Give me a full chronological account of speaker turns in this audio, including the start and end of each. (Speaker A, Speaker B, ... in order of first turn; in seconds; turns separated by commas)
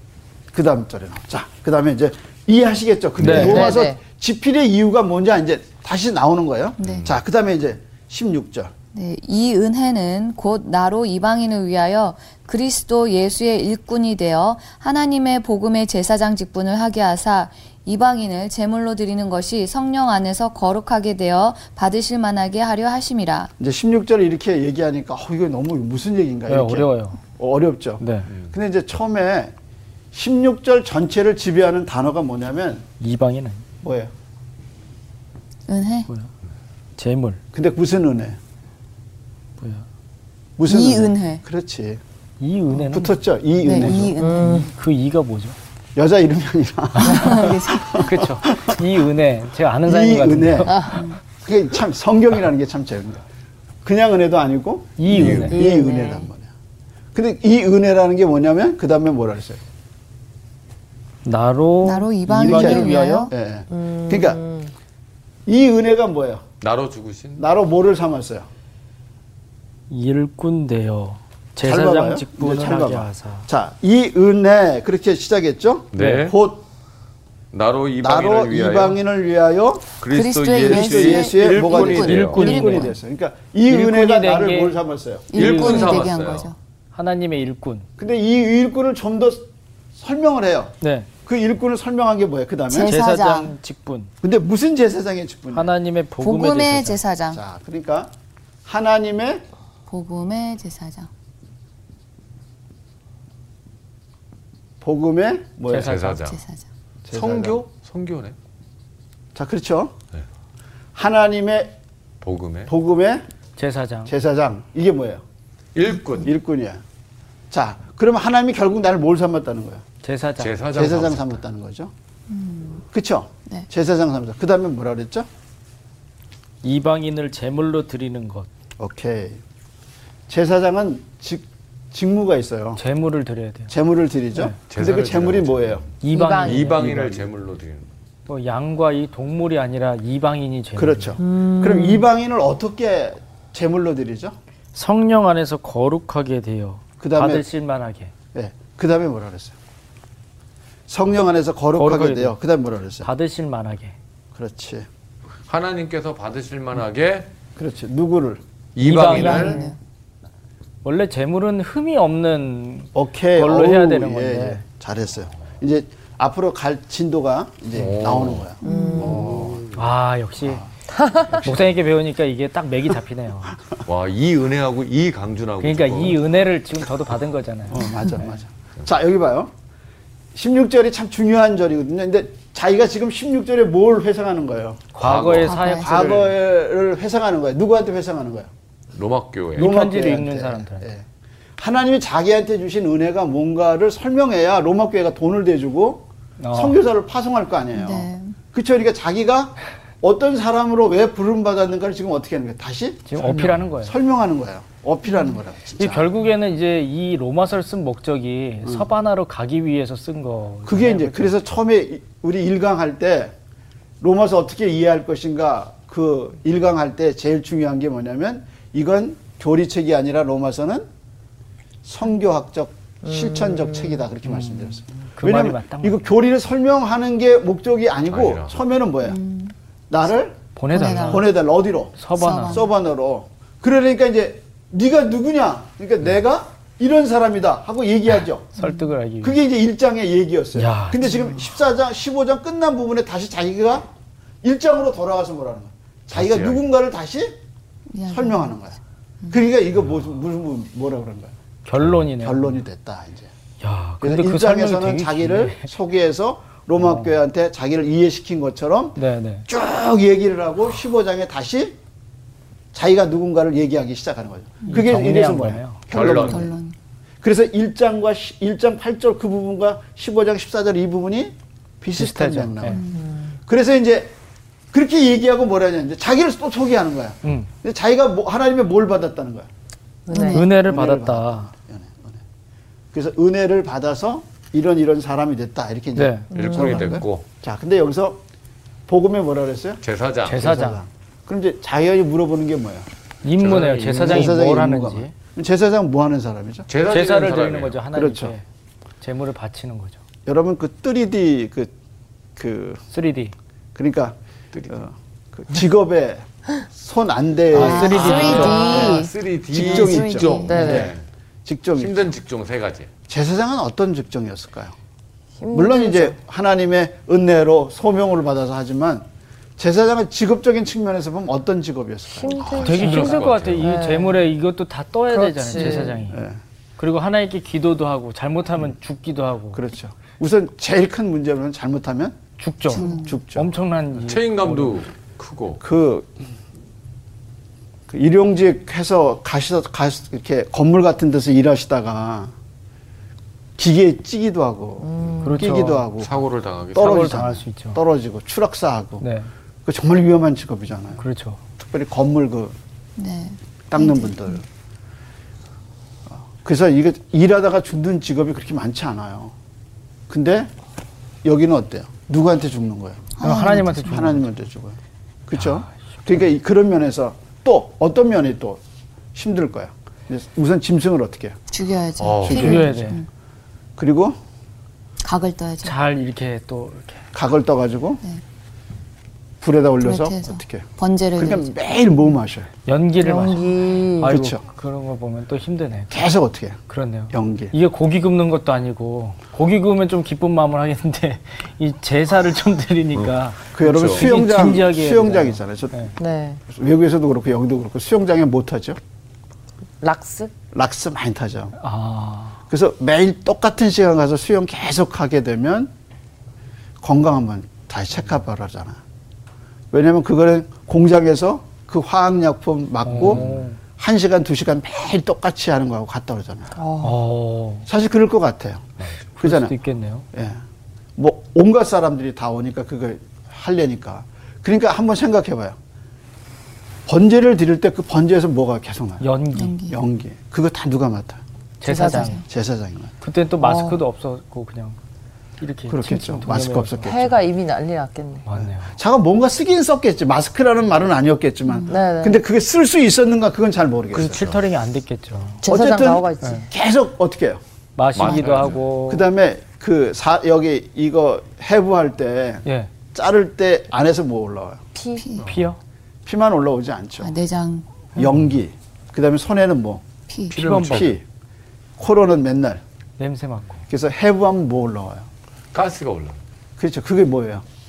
Speaker A: 0.5-8.7, Speaker B: 3.2-3.5, Speaker C: 3.2-3.7, Speaker D: 3.4-4.0, Speaker B: 6.8-7.2, Speaker E: 8.9-23.5, Speaker A: 23.6-29.5, Speaker C: 26.5-27.2, Speaker C: 28.0-28.3, Speaker A: 30.1-32.9, Speaker C: 33.0-33.6, Speaker A: 33.8-34.1, Speaker E: 35.7-36.1, Speaker C: 37.0-37.4, Speaker A: 37.5-38.4, Speaker C: 39.6-39.8, Speaker A: 40.6-42.0, Speaker E: 40.7-41.4, Speaker C: 42.4-43.2, Speaker A: 42.8-44.1, Speaker E: 43.6-44.7, Speaker C: 43.8-45.5, Speaker D: 44.2-44.7, Speaker A: 46.0-48.8, Speaker C: 47.0-47.4, Speaker E: 47.0-48.1, Speaker C: 48.0-50.9, Speaker A: 49.8-53.2, Speaker D: 50.7-51.0, Speaker E: 50.9-51.2, Speaker A: 53.8-56.5, Speaker C: 55.0-55.5, Speaker B: 55.1-55.5, Speaker D: 55.5-56.3, Speaker A: 57.1-59.6, Speaker C: 61.2-62.9, Speaker E: 61.8-63.3, Speaker A: 62.2-64.4, Speaker D: 63.7-64.7, Speaker A: 65.5-66.4, Speaker B: 66.6-67.5, Speaker A: 67.4-68.5, Speaker C: 69.9-73.5, Speaker A: 71.6-76.6, Speaker B: 75.9-76.3, Speaker C: 76.0-76.3, Speaker B: 77.5-79.0, Speaker A: 78.0-80.0, Speaker B: 80.0-82.6, Speaker E: 80.1-82.9, Speaker A: 80.6-85.3, Speaker C: 82.0-82.9, Speaker C: 83.7-84.8, Speaker E: 85.3-86.5, Speaker B: 85.3-86.5, Speaker C: 85.3-86.0, Speaker C: 86.9-87.9, Speaker A: 88.0-93.0, Speaker C: 90.8-91.1, Speaker E: 92.7-93.5, Speaker C: 92.9-94.1, Speaker A: 94.2-95.7, Speaker C: 95.5-97.0, Speaker E: 96.2-97.4, Speaker A: 97.3-98.1, Speaker A: 98.6-99.4, Speaker E: 99.9-101.1, Speaker A: 104.8-106.0, Speaker C: 105.7-106.2, Speaker B: 105.7-106.4, Speaker E: 106.2-106.6, Speaker A: 107.0-107.6, Speaker B: 107.1-108.3, Speaker A: 109.3-109.9, Speaker A: 110.9-111.7, Speaker B: 112.2-112.7, Speaker A: 112.7-113.2, Speaker C: 113.6-114.1, Speaker A: 114.0-115.2, Speaker B: 115.7-116.3, Speaker A: 116.2-116.8, Speaker A: 117.5-119.8, Speaker C: 120.0-120.5, Speaker B: 120.4-121.4, Speaker A: 120.7-121.9, Speaker E: 122.3-122.8, Speaker A: 122.9-125.3, Speaker C: 126.6-128.5, Speaker A: 128.8-129.4, Speaker A: 130.3-132.8, Speaker C: 132.8-133.7, Speaker A: 133.7-135.8, Speaker B: 134.7-137.8, Speaker C: 136.0-137.2, Speaker D: 136.1-136.7, Speaker C: 138.3-141.2, Speaker A: 140.8-144.3, Speaker D: 141.2-142.1, Speaker C: 144.7-148.1, Speaker A: 147.0-147.5, Speaker A: 148.3-149.5, Speaker A: 150.9-153.1, Speaker C: 151.8-152.3, Speaker C: 153.0-153.9, Speaker A: 154.3-154.9, Speaker B: 155.5-157.3, Speaker A: 157.6-158.4, Speaker B: 158.8-159.6, Speaker C: 158.8-159.6, Speaker E: 159.1-159.7, Speaker D: 159.3-159.7, Speaker C: 160.8-164.6, Speaker A: 162.9-169.7, Speaker B: 167.7-168.5, Speaker D: 168.6-169.3, Speaker E: 168.6-169.3, Speaker B: 169.4-169.7, Speaker C: 169.7-170.6, Speaker D: 170.9-171.4, Speaker C: 171.4-173.6, Speaker B: 173.8-176.2, Speaker C: 175.6-178.3, Speaker A: 177.7-179.5, Speaker A: 180.3-185.1, Speaker C: 184.9-186.3, Speaker B: 185.0-185.6, Speaker E: 185.4-186.0, Speaker A: 185.6-188.5, Speaker B: 188.9-189.7, Speaker A: 189.6-191.0, Speaker C: 189.6-190.9, Speaker A: 191.6-206.1, Speaker C: 196.4-196.8, Speaker E: 197.7-198.3, Speaker C: 203.1-203.9, Speaker B: 203.3-203.5, Speaker E: 205.1-205.3, Speaker C: 205.8-211.3, Speaker A: 210.6-213.3, Speaker A: 214.0-220.9, Speaker A: 221.8-229.2, Speaker D: 223.1-224.0, Speaker C: 224.3-226.1, Speaker B: 228.1-228.6, Speaker E: 229.0-229.5, Speaker A: 229.9-238.5, Speaker C: 230.6-231.3, Speaker E: 230.7-231.3, Speaker C: 232.0-232.6, Speaker E: 232.2-232.7, Speaker E: 238.6-238.9, Speaker C: 238.6-239.4, Speaker A: 239.2-243.9, Speaker C: 240.6-241.1, Speaker A: 244.4-247.4, Speaker B: 246.1-246.6, Speaker E: 247.9-248.5, Speaker A: 248.1-248.8, Speaker A: 249.3-251.3, Speaker C: 251.7-252.6, Speaker A: 252.2-253.3, Speaker C: 253.6-255.7, Speaker A: 254.0-261.8, Speaker C: 256.8-257.1, Speaker C: 258.9-259.5, Speaker A: 262.7-266.5, Speaker C: 264.7-265.8, Speaker B: 265.9-266.5, Speaker E: 266.1-266.7, Speaker A: 267.2-272.9, Speaker C: 271.9-272.8, Speaker E: 272.7-273.0, Speaker D: 272.9-273.3, Speaker A: 273.4-274.1, Speaker A: 274.7-279.5, Speaker C: 277.2-277.5, Speaker D: 280.1-280.4, Speaker E: 280.1-280.4, Speaker C: 280.3-281.5, Speaker A: 280.4-282.2, Speaker A: 282.9-288.2, Speaker C: 285.9-286.3, Speaker B: 286.3-287.2, Speaker D: 286.3-286.8, Speaker A: 288.9-292.9, Speaker B: 289.8-290.4, Speaker C: 290.2-290.8, Speaker C: 293.2-295.1, Speaker B: 293.4-294.2, Speaker A: 293.5-296.7, Speaker B: 296.7-297.8, Speaker C: 296.9-298.4, Speaker A: 297.9-298.4, Speaker C: 299.0-300.0, Speaker A: 300.2-301.7, Speaker A: 302.4-302.8, Speaker C: 302.9-303.3, Speaker A: 303.7-304.1, Speaker A: 304.7-308.8, Speaker C: 307.5-308.9, Speaker E: 307.5-310.7, Speaker D: 307.9-309.0, Speaker B: 307.9-311.0, Speaker A: 309.5-312.1, Speaker D: 310.5-310.9, Speaker B: 311.8-312.9, Speaker A: 313.1-314.7, Speaker D: 315.4-316.1, Speaker A: 315.5-319.1, Speaker A: 319.6-322.6, Speaker D: 322.2-324.2, Speaker B: 322.4-323.7, Speaker C: 322.6-326.2, Speaker D: 325.1-326.0, Speaker A: 326.1-326.4, Speaker C: 326.8-329.6, Speaker A: 329.5-332.2, Speaker C: 332.4-334.7, Speaker E: 332.7-333.2, Speaker A: 332.7-333.5, Speaker B: 334.0-335.6, Speaker A: 335.6-336.2, Speaker A: 337.9-342.3, Speaker A: 343.6-346.1, Speaker D: 344.8-345.4, Speaker C: 345.2-345.9, Speaker B: 346.0-347.2, Speaker A: 346.7-349.0, Speaker C: 346.8-347.8, Speaker C: 349.0-349.3, Speaker A: 349.6-351.0, Speaker C: 351.0-351.4, Speaker A: 351.6-352.6, Speaker E: 353.0-354.4, Speaker A: 353.7-354.4, Speaker A: 356.1-359.3, Speaker A: 360.1-360.5, Speaker A: 361.2-363.2, Speaker E: 363.2-364.1, Speaker C: 363.2-364.2, Speaker A: 363.8-368.6, Speaker A: 369.1-371.4, Speaker E: 371.5-373.1, Speaker B: 372.0-372.6, Speaker A: 372.2-372.7, Speaker C: 372.4-373.0, Speaker A: 373.8-374.2, Speaker E: 375.0-375.7, Speaker C: 375.6-377.0, Speaker A: 377.1-378.0, Speaker A: 379.4-382.5, Speaker E: 379.8-381.5, Speaker C: 382.6-386.0, Speaker D: 383.0-384.2, Speaker A: 384.0-384.4, Speaker A: 385.9-386.6, Speaker C: 386.7-395.9, Speaker A: 387.1-387.5, Speaker A: 393.5-395.9, Speaker B: 393.6-394.0, Speaker D: 396.0-396.4, Speaker A: 396.5-398.8, Speaker D: 399.8-400.3, Speaker A: 400.5-401.5, Speaker C: 401.6-402.4, Speaker A: 402.5-405.7, Speaker A: 406.8-408.8, Speaker A: 409.7-413.2, Speaker C: 412.8-413.6, Speaker B: 413.0-413.4, Speaker A: 413.8-416.5, Speaker D: 416.6-417.0, Speaker C: 416.8-417.7, Speaker A: 417.7-419.5, Speaker C: 419.2-420.0, Speaker A: 420.1-420.4, Speaker A: 421.0-425.6, Speaker A: 426.9-429.0, Speaker C: 429.0-429.6, Speaker E: 429.3-429.8, Speaker A: 429.7-431.2, Speaker C: 431.6-432.2, Speaker D: 431.7-432.1, Speaker E: 431.7-432.2, Speaker A: 432.2-432.9, Speaker C: 433.0-434.8, Speaker D: 433.4-433.8, Speaker C: 435.4-437.1, Speaker A: 435.7-437.1, Speaker D: 436.8-438.2, Speaker C: 438.2-438.7, Speaker A: 438.4-444.2, Speaker E: 441.5-441.8, Speaker D: 441.7-442.2, Speaker C: 443.9-445.4, Speaker B: 444.0-444.3, Speaker D: 445.4-446.5, Speaker A: 445.4-447.4, Speaker C: 447.8-449.1, Speaker B: 447.9-448.6, Speaker A: 448.9-454.6, Speaker C: 452.4-452.7, Speaker D: 454.7-455.0, Speaker E: 455.0-455.2, Speaker B: 455.2-455.4, Speaker C: 455.2-455.6, Speaker A: 456.1-457.1, Speaker E: 457.0-457.7, Speaker A: 457.9-459.8, Speaker E: 460.1-460.4, Speaker B: 460.3-460.9, Speaker C: 460.3-460.9, Speaker A: 460.4-461.0, Speaker A: 461.8-462.6, Speaker C: 463.0-463.6, Speaker A: 463.7-465.1, Speaker B: 465.5-466.2, Speaker A: 466.6-467.4